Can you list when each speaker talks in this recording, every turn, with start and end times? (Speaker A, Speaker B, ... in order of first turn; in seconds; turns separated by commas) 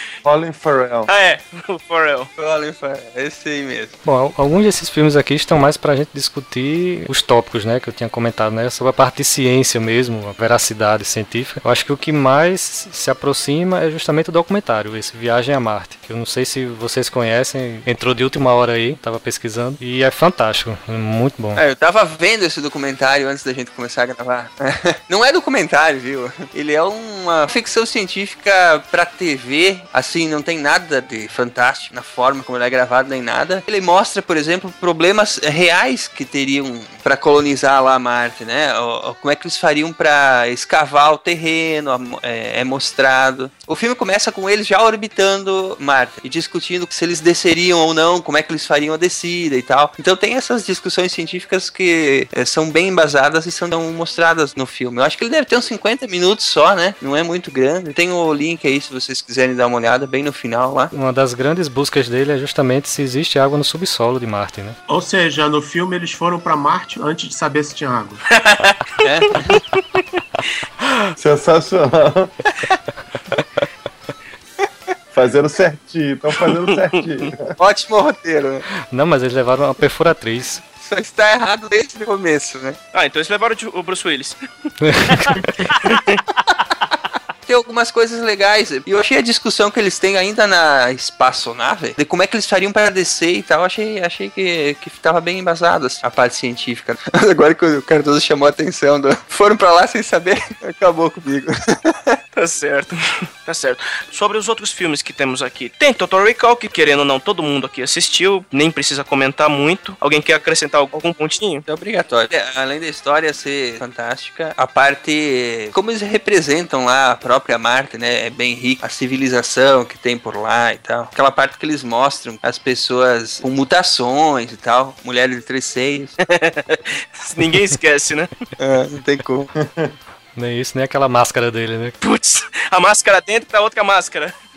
Speaker A: 0.2-1.1, Speaker B: 1.1-2.3, Speaker C: 2.4-3.9, Speaker D: 4.0-21.6, Speaker C: 21.6-60.9, Speaker D: 60.9-64.8, Speaker E: 64.9-68.2, Speaker B: 68.4-68.8, Speaker C: 69.0-69.5, Speaker A: 71.2-72.3, Speaker A: 75.1-77.5, Speaker C: 77.6-78.7, Speaker D: 78.9-80.6, Speaker C: 80.8-82.8, Speaker B: 82.9-84.4, Speaker D: 84.8-85.5, Speaker B: 85.1-86.2, Speaker C: 87.5-102.2, Speaker B: 102.3-111.7, Speaker C: 111.7-126.2, Speaker B: 126.2-128.3, Speaker C: 128.6-129.5, Speaker A: 129.6-129.9, Speaker D: 130.4-131.9, Speaker B: 132.0-134.3